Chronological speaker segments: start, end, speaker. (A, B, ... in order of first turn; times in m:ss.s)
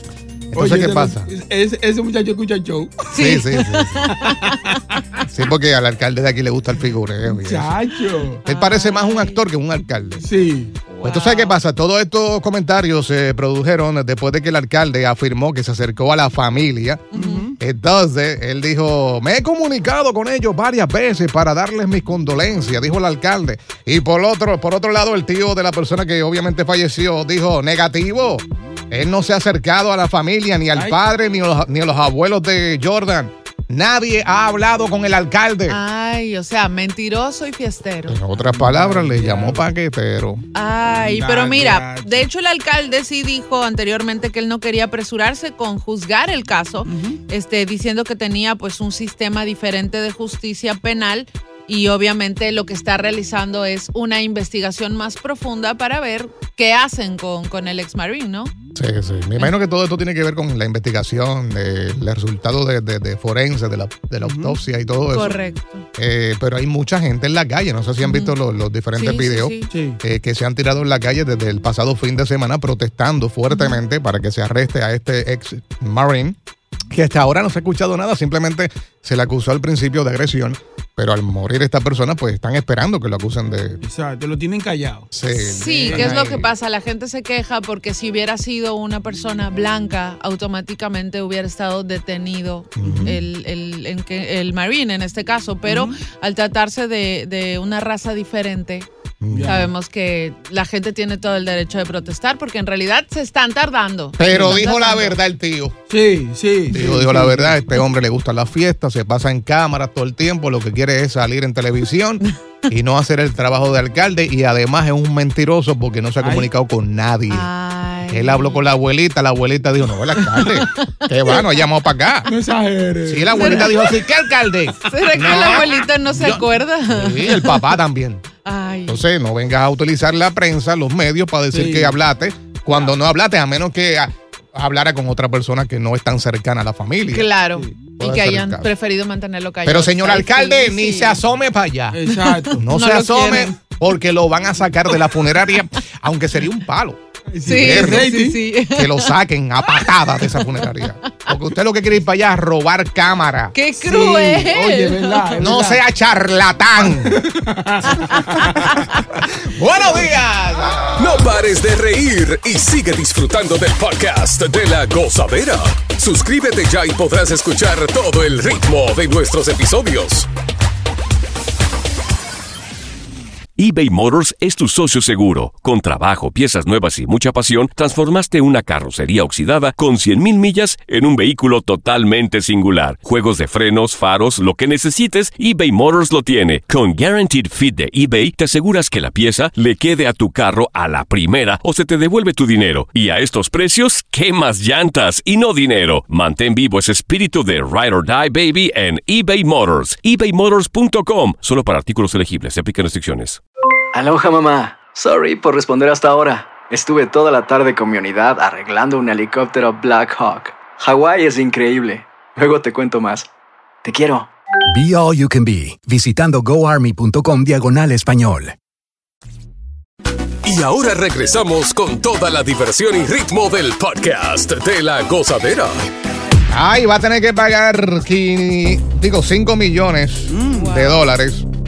0:00.5-0:01.3 A
0:00.5-0:03.1 B
0:03.1-0:04.6 C
0:03.1-0:04.1 A
0:04.2-0:05.2 B
0:05.3-0:07.7 A
0:07.3-0:08.4 B
0:08.4-0:10.2 A
0:08.4-0:09.4 C
0:10.2-0:10.7 B
0:11.0-0:11.6 C
0:11.0-0:35.8 A
0:17.1-0:17.5 C
0:17.1-0:17.5 B
0:30.7-0:31.0 B
0:35.7-0:38.2 C
0:38.1-0:40.4 A
0:38.4-0:39.6 B
0:40.5-0:58.5 C
0:41.0-0:42.2 B
0:46.8-0:47.2 B
0:58.8-1:05.4 A
1:04.2-1:04.6 B
1:05.1-1:05.8 C
1:06.0-1:16.4 A
1:08.0-1:08.3 C
1:09.0-1:09.7 C
1:09.7-1:10.0 B
1:13.5-1:13.8 C
1:16.9-1:23.8 A
1:23.8-1:25.1 B
1:25.1-1:26.5 A
1:25.3-1:38.9 C
1:25.9-1:26.2 B
1:32.8-1:33.2 A
1:32.8-1:33.1 B
1:35.6-1:36.0 B
1:39.2-1:39.6 A
1:39.3-1:39.7 B
1:39.4-1:45.2 C
1:44.2-1:45.7 A
1:44.2-1:44.7 B
1:45.9-1:47.7 B
1:46.7-1:57.5 A
1:56.2-1:56.5 B
1:57.3-1:58.6 C
1:58.1-2:02.3 A
2:00.2-2:01.6 C
2:02.3-2:03.9 B
2:03.1-2:08.2 A
2:03.3-2:03.7 C
2:04.8-2:07.6 C
2:08.3-2:09.0 C
2:08.9-2:17.3 A
2:11.5-2:12.0 B
2:12.7-2:12.9 B
2:17.0-2:21.2 C
2:17.6-2:17.9 B
2:18.0-2:18.7 A
2:19.6-2:27.0 A
2:21.9-2:22.6 B
2:22.7-2:23.5 C
2:27.3-2:28.4 B
2:27.4-2:29.1 C
2:27.5-2:28.2 A
2:28.7-2:33.5 A
2:33.5-2:35.4 C
2:33.8-2:35.8 B
2:35.4-2:37.2 A
2:36.8-2:38.9 B
2:39.4-2:41.2 A
2:41.0-2:50.3 D
2:53.6-3:23.4 E
3:23.9-3:33.3 F
3:33.8-3:34.3 F
3:34.7-3:38.6 G
3:40.4-3:45.8 D
3:46.5-3:51.4 A
3:50.3-3:50.8 B
3:50.5-3:51.1 C